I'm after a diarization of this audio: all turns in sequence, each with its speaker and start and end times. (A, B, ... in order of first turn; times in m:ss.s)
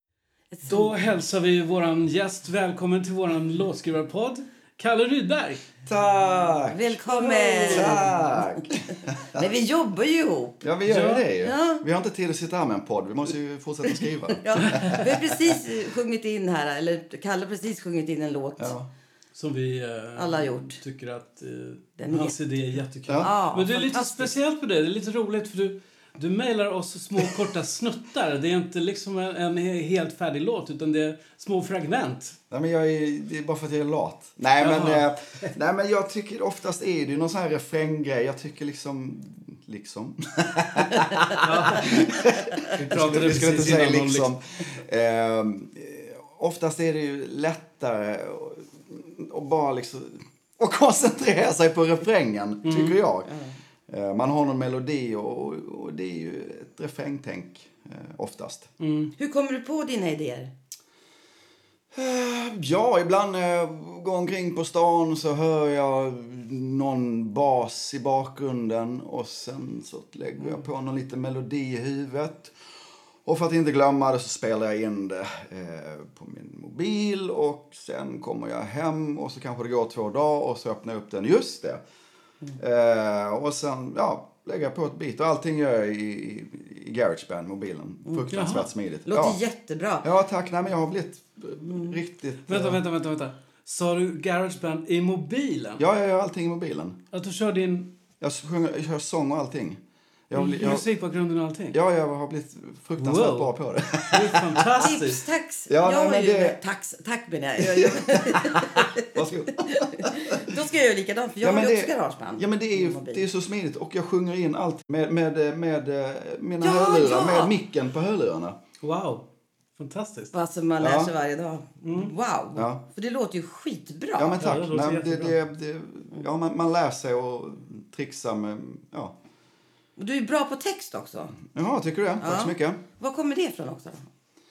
0:00.5-0:00.9 A
0:00.6-0:05.7 B
0:05.8-0:09.4 C
0:06.7-0:08.7 A
0:07.6-0:08.0 B
0:09.3-0:10.6 A
0:10.6-0:15.2 C
0:10.9-0:11.2 B
0:11.4-0:11.8 A
0:14.4-0:18.7 A
0:18.6-0:18.9 C
0:19.3-0:32.4 B
0:20.2-0:20.8 A
0:22.0-0:22.4 A
0:23.2-0:24.3 A
0:32.5-0:53.3 C
0:34.6-0:35.6 B
0:41.4-0:42.1 B
0:42.7-0:44.3 B
0:52.6-0:53.0 B
0:53.3-0:53.6 A
0:53.9-0:58.7 C
0:58.8-0:59.1 B
0:59.2-1:00.5 A
1:01.9-1:12.6 C
1:13.2-1:21.8 C
1:22.6-1:29.4 C
1:28.3-1:28.7 B
1:29.1-1:30.1 A
1:30.0-1:32.8 C
1:31.7-1:31.9 A
1:32.5-1:35.8 B
1:35.8-1:37.0 C
1:37.1-1:37.9 B
1:38.2-1:40.8 C
1:40.3-1:41.8 B
1:41.7-1:44.8 C
1:43.0-1:45.2 B
1:44.8-1:53.2 A
1:45.7-1:46.6 C
1:47.6-1:50.5 C
1:51.4-1:58.6 C
1:56.6-1:57.5 A
1:58.8-2:00.3 B
2:00.3-2:04.4 A
2:00.8-2:01.1 C
2:01.8-2:02.1 B
2:02.5-2:02.8 C
2:04.2-2:09.2 C
2:04.4-2:05.4 B
2:10.0-2:11.4 A
2:11.4-2:12.8 C
2:12.2-2:14.1 A